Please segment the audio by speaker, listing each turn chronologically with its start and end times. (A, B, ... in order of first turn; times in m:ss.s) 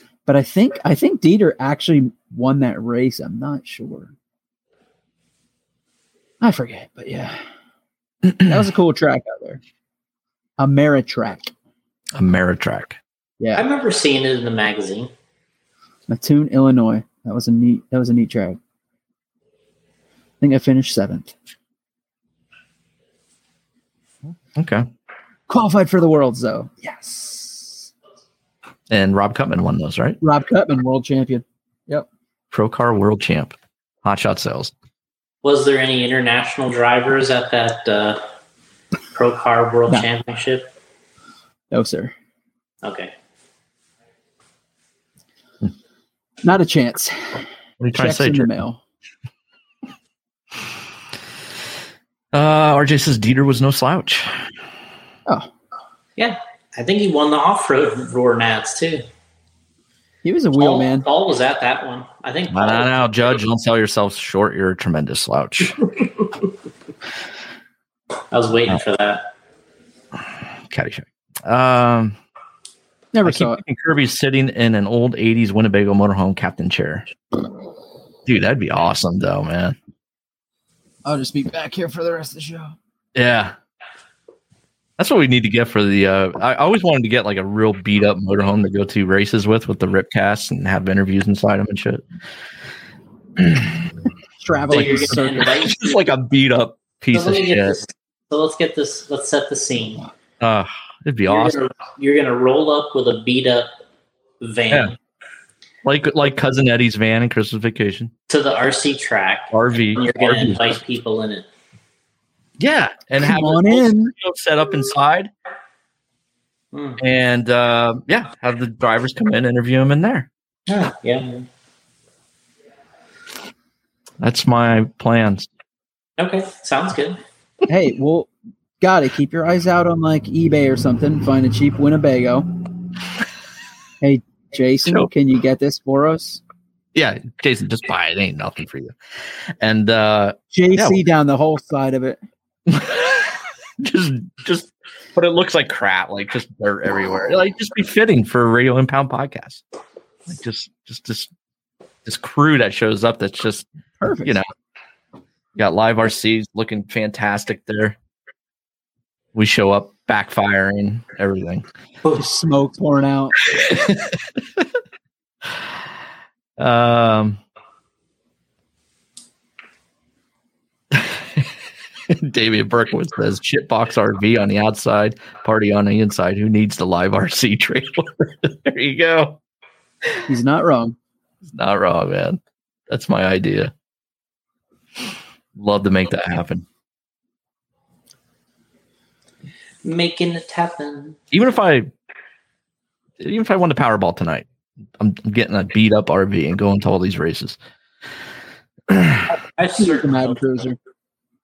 0:00.3-0:04.1 A
0:06.4-0:07.4 A
0:08.4-0:09.6 A
0:10.6-0:11.5 A
0:12.2-0:13.0 B
0:13.6-0:15.1 C
0:16.1-0:18.6 A
0:20.4-0:21.3 A
0:24.5-0:24.9 B
0:25.5-0:27.9 A
0:28.9-0:30.2 B
0:30.2-0:32.1 A
0:32.5-0:34.7 B
0:35.4-0:38.2 C
0:39.1-0:40.7 C
0:41.7-0:42.1 A
0:42.8-0:43.1 C
0:46.4-0:47.4 A
0:47.8-0:48.5 B
0:47.9-0:48.8 A
0:52.3-0:54.3 B
0:56.2-0:59.0 C
1:00.2-1:01.0 A
1:00.6-1:03.0 C
1:02.5-1:05.8 B
1:08.3-1:09.3 C
1:10.7-1:12.2 B
1:13.1-1:13.6 A
1:13.2-1:17.1 B
1:18.3-1:19.8 B
1:21.0-1:22.8 A
1:23.2-1:23.6 B
1:25.0-1:32.0 B
1:33.4-1:33.8 B
1:34.4-1:35.5 A
1:34.7-1:36.0 C
1:34.8-1:37.8 B
1:37.1-1:40.0 C
1:40.4-1:41.6 B
1:41.3-1:43.7 C
1:44.4-1:45.0 C
1:45.8-1:48.1 B
1:48.3-1:51.5 C
1:49.5-1:50.8 B
1:52.6-1:55.3 B
1:53.2-1:54.1 A
1:56.7-1:57.0 C
1:57.0-2:00.3 B
2:00.7-2:01.5 C
2:04.2-2:05.5 B
2:06.2-2:07.2 C
2:07.7-2:12.5 A
2:14.0-2:16.4 A
2:17.0-2:19.0 B
2:19.6-2:21.0 B
2:20.5-2:22.2 A
2:22.7-2:29.6 B
2:30.3-2:31.3 B
2:32.0-2:33.7 B
2:34.0-2:34.4 A
2:35.6-2:38.0 B
2:39.4-2:41.6 B
2:42.2-2:43.4 A
2:43.5-2:44.6 B
2:46.6-2:47.4 B
2:50.9-2:51.5 B
2:52.1-2:59.4 B
3:00.3-3:01.0 A
3:01.4-3:03.7 B
3:05.6-3:06.6 B
3:09.8-3:11.2 C
3:11.3-3:11.9 B
3:13.2-3:14.5 B
3:15.0-3:17.6 B
3:18.9-3:19.3 B
3:19.4-3:20.4 C
3:19.8-3:20.8 A